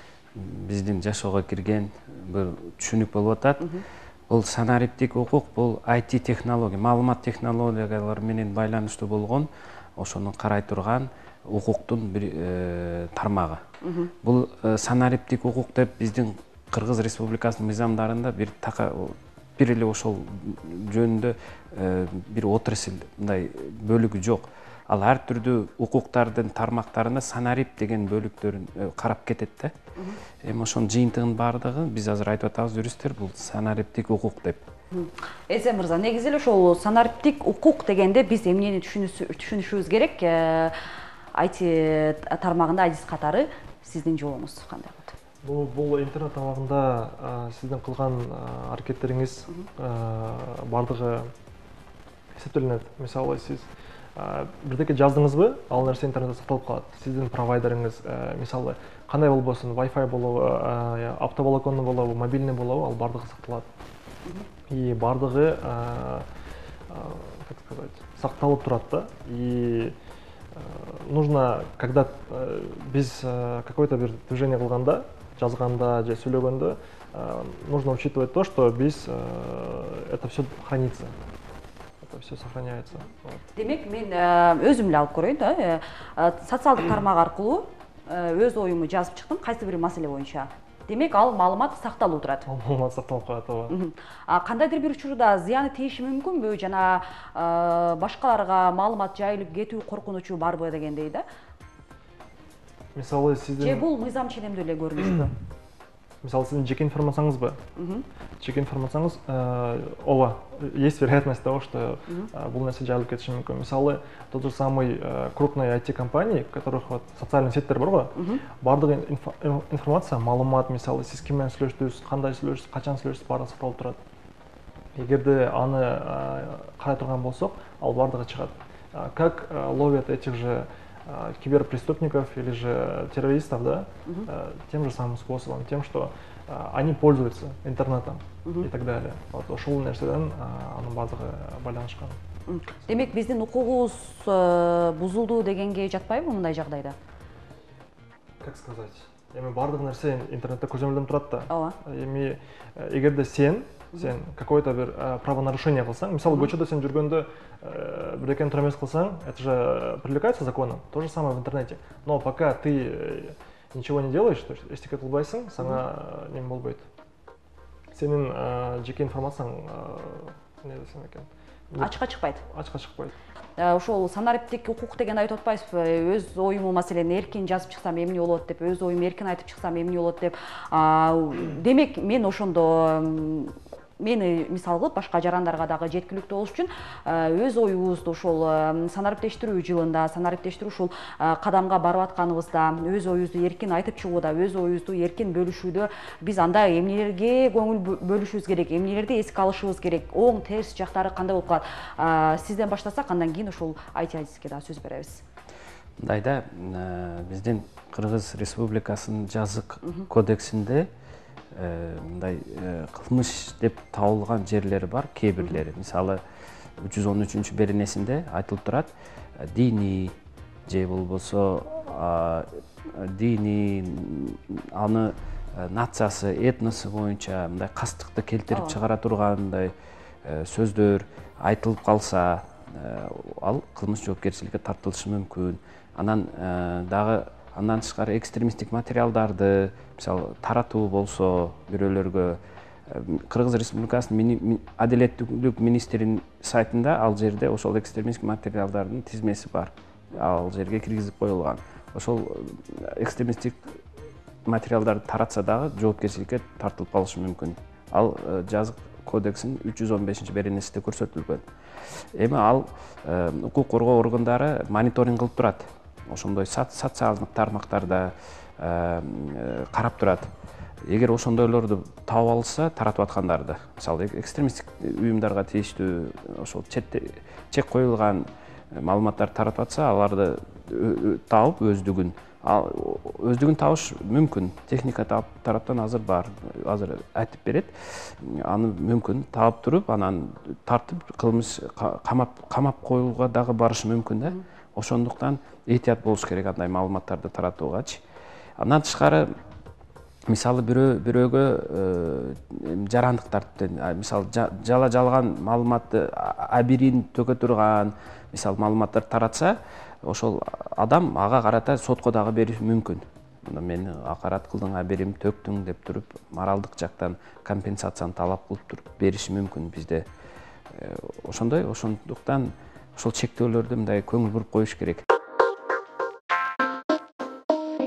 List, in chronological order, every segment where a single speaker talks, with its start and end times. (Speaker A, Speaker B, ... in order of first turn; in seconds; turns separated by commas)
Speaker A: 0.3-3.7, Speaker A: 4.3-13.6, Speaker B: 13.8-14.1, Speaker A: 14.2-29.7, Speaker A: 30.4-34.6, Speaker B: 34.9-40.8, Speaker B: 41.4-45.1, Speaker C: 45.4-51.3, Speaker C: 52.3-63.7, Speaker C: 64.7-66.3, Speaker C: 66.9-69.9, Speaker C: 70.5-81.1, Speaker C: 82.0-83.4, Speaker B: 83.5-92.5, Speaker C: 92.5-93.8, Speaker B: 93.7-101.2, Speaker C: 102.9-103.9, Speaker B: 103.6-105.3, Speaker C: 106.2-107.6, Speaker B: 107.8-108.0, Speaker C: 108.4-124.0, Speaker B: 118.2-118.4, Speaker C: 125.0-142.2, Speaker B: 142.5-146.9, Speaker C: 148.4-166.8, Speaker B: 151.5-151.8, Speaker B: 156.3-156.5, Speaker C: 167.9-173.1, Speaker B: 171.8-172.4, Speaker B: 173.6-205.2, Speaker A: 206.0-210.9, Speaker A: 211.5-216.2, Speaker A: 216.8-229.7, Speaker A: 230.2-253.8, Speaker A: 254.4-261.4, Speaker A: 262.1-270.3, Speaker A: 270.9-298.0, Speaker A: 298.6-299.3, Speaker A: 300.3-320.1, Speaker A: 320.7-325.0